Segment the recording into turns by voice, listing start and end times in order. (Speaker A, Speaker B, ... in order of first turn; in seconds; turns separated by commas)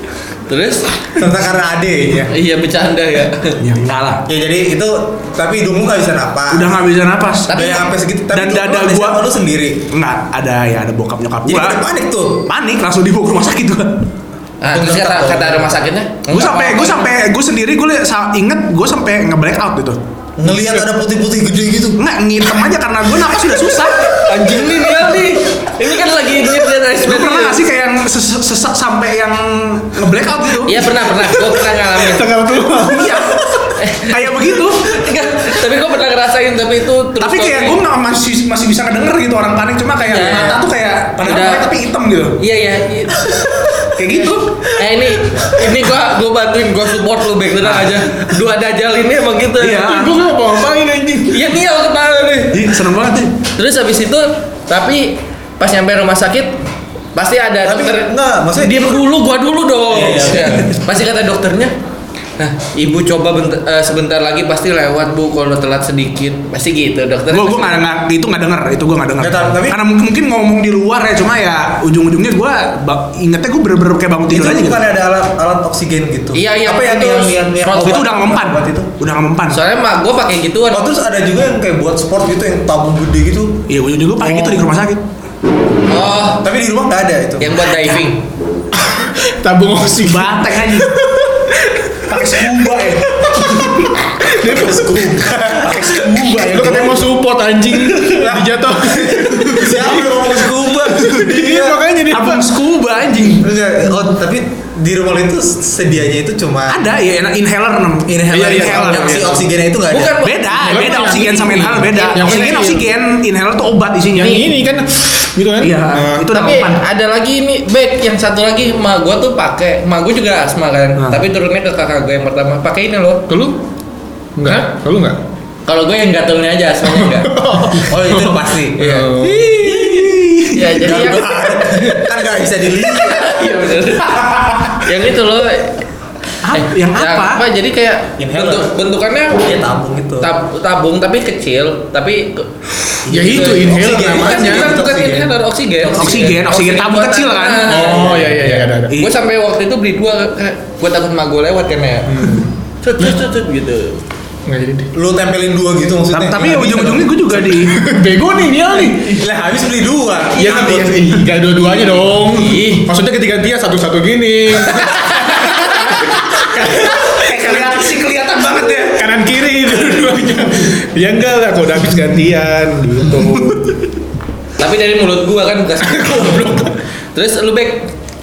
Speaker A: 0.5-0.9, Speaker B: 1.1-2.3, Speaker A: 2.3-3.6, Speaker C: 3.6-4.2, Speaker B: 4.3-6.8, Speaker C: 6.5-7.7, Speaker A: 7.5-7.8, Speaker B: 7.5-9.9, Speaker C: 8.3-9.2, Speaker C: 9.9-11.8, Speaker B: 11.4-12.4, Speaker C: 12.4-14.1, Speaker A: 14.6-17.1, Speaker B: 14.6-15.7, Speaker C: 16.3-20.8, Speaker B: 20.4-22.0, Speaker C: 22.0-24.2, Speaker A: 24.2-27.6, Speaker C: 27.0-31.5, Speaker A: 30.6-32.3, Speaker D: 32.1-33.4, Speaker C: 32.5-35.0, Speaker A: 33.8-37.8, Speaker C: 37.2-42.4, Speaker A: 40.0-40.6, Speaker A: 41.2-41.6, Speaker A: 42.4-43.5, Speaker C: 43.8-45.5, Speaker A: 44.8-49.9, Speaker C: 47.6-48.0, Speaker C: 49.6-50.2, Speaker D: 49.8-51.5, Speaker A: 51.3-52.7, Speaker C: 52.5-53.4, Speaker A: 53.6-56.5, Speaker A: 57.1-61.7, Speaker B: 57.6-59.0, Speaker B: 59.9-60.8, Speaker A: 62.4-67.8, Speaker C: 67.3-74.8, Speaker B: 69.2-69.8, Speaker B: 74.3-78.9, Speaker A: 76.3-78.0, Speaker C: 77.7-79.6, Speaker A: 79.5-80.9, Speaker B: 80.7-83.6, Speaker C: 83.7-85.0, Speaker D: 84.2-84.7, Speaker A: 85.9-86.4, Speaker B: 86.4-87.7, Speaker A: 87.4-88.2, Speaker D: 88.8-91.3, Speaker C: 90.0-91.0, Speaker C: 92.0-97.1, Speaker D: 93.3-95.2, Speaker B: 94.5-95.9, Speaker D: 96.4-100.3, Speaker B: 98.0-101.8, Speaker D: 100.9-102.5, Speaker C: 101.0-101.3, Speaker C: 102.1-103.5, Speaker B: 103.4-106.9, Speaker C: 106.7-109.3, Speaker B: 108.1-110.2, Speaker D: 108.3-109.4, Speaker A: 109.9-110.5, Speaker C: 110.2-114.5, Speaker D: 110.5-112.9, Speaker A: 111.9-112.6, Speaker D: 114.1-116.3, Speaker C: 115.6-116.8, Speaker A: 116.3-123.2, Speaker D: 123.3-123.6, Speaker D: 124.4-125.2, Speaker A: 125.7-127.3, Speaker D: 126.9-129.5, Speaker B: 127.8-129.1, Speaker A: 128.8-132.1, Speaker C: 129.6-131.1, Speaker B: 130.8-133.4, Speaker A: 132.8-135.8, Speaker C: 136.4-137.4, Speaker A: 136.5-139.5, Speaker B: 138.2-138.7, Speaker B: 139.4-140.3, Speaker A: 140.2-142.5, Speaker B: 143.1-145.3, Speaker D: 143.1-144.8, Speaker A: 143.3-148.2, Speaker B: 145.9-146.2, Speaker C: 145.9-149.1, Speaker B: 147.7-148.6, Speaker D: 147.7-148.9, Speaker A: 148.9-154.0, Speaker D: 152.1-153.2, Speaker D: 154.4-154.9, Speaker B: 154.9-157.2, Speaker C: 156.1-157.8, Speaker D: 157.4-159.2, Speaker B: 159.0-161.3, Speaker D: 160.3-167.8, Speaker A: 160.5-160.7, Speaker A: 162.2-162.9, Speaker C: 166.7-169.1, Speaker D: 168.9-173.8, Speaker C: 169.7-170.1, Speaker C: 173.1-173.6, Speaker A: 174.6-177.9, Speaker D: 175.8-176.7